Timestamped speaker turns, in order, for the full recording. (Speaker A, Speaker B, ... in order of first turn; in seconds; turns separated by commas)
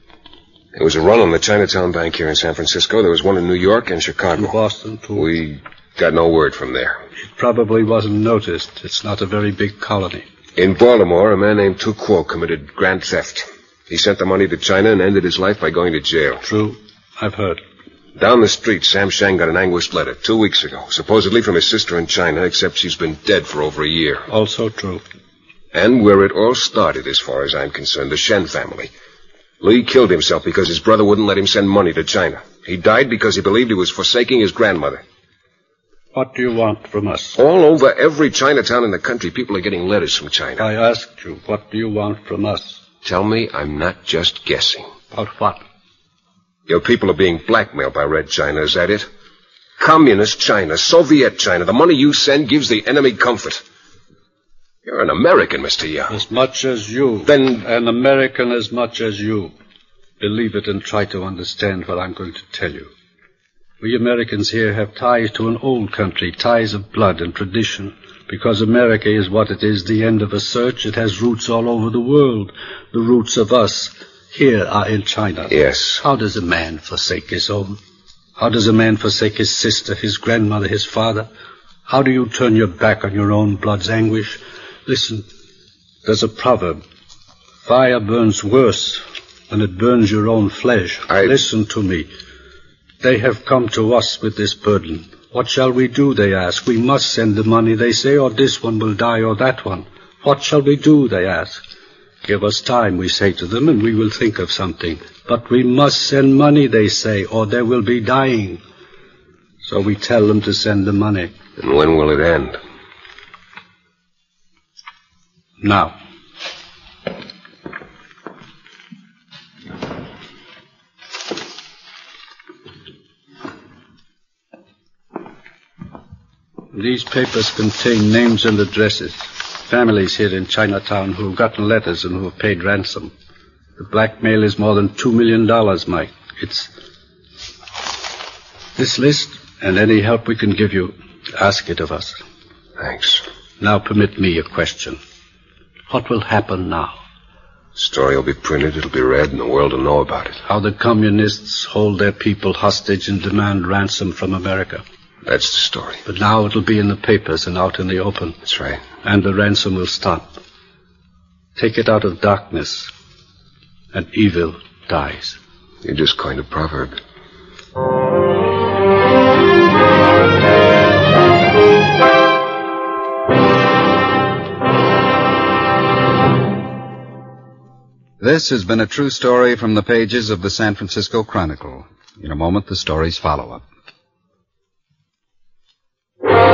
Speaker A: 0.7-4.5, Speaker B: 4.3-5.3, Speaker A: 5.1-7.0, Speaker B: 7.2-10.2, Speaker A: 10.6-16.4, Speaker B: 16.4-17.6, Speaker A: 18.1-24.2, Speaker B: 24.3-25.0, Speaker A: 25.7-28.9, Speaker A: 29.6-35.0, Speaker B: 36.1-37.4, Speaker A: 37.4-40.6, Speaker B: 40.6-42.8, Speaker A: 43.0-44.9, Speaker B: 45.1-45.6, Speaker A: 46.7-49.1, Speaker A: 49.8-53.6, Speaker A: 54.8-56.2, Speaker B: 56.1-59.5, Speaker A: 57.2-57.6, Speaker B: 60.2-62.9, Speaker B: 63.8-77.8, Speaker A: 75.5-76.0, Speaker B: 78.4-81.3, Speaker B: 81.9-85.2, Speaker B: 86.0-86.8, Speaker B: 87.6-92.1, Speaker A: 91.1-91.4, Speaker B: 93.0-101.6, Speaker B: 102.2-108.6, Speaker B: 109.6-111.3, Speaker A: 111.6-112.6, Speaker B: 115.6-115.9, Speaker B: 126.7-133.1, Speaker B: 133.8-136.7, Speaker B: 138.8-142.2, Speaker A: 142.8-143.2, Speaker B: 143.6-145.0, Speaker B: 145.9-146.9, Speaker A: 147.8-150.4, Speaker B: 150.4-154.8, Speaker A: 155.2-156.0, Speaker B: 156.0-158.3, Speaker A: 158.4-158.8, Speaker B: 159.0-160.4, Speaker B: 161.6-162.9, Speaker B: 163.9-165.4, Speaker A: 165.8-167.0, Speaker C: 178.2-183.6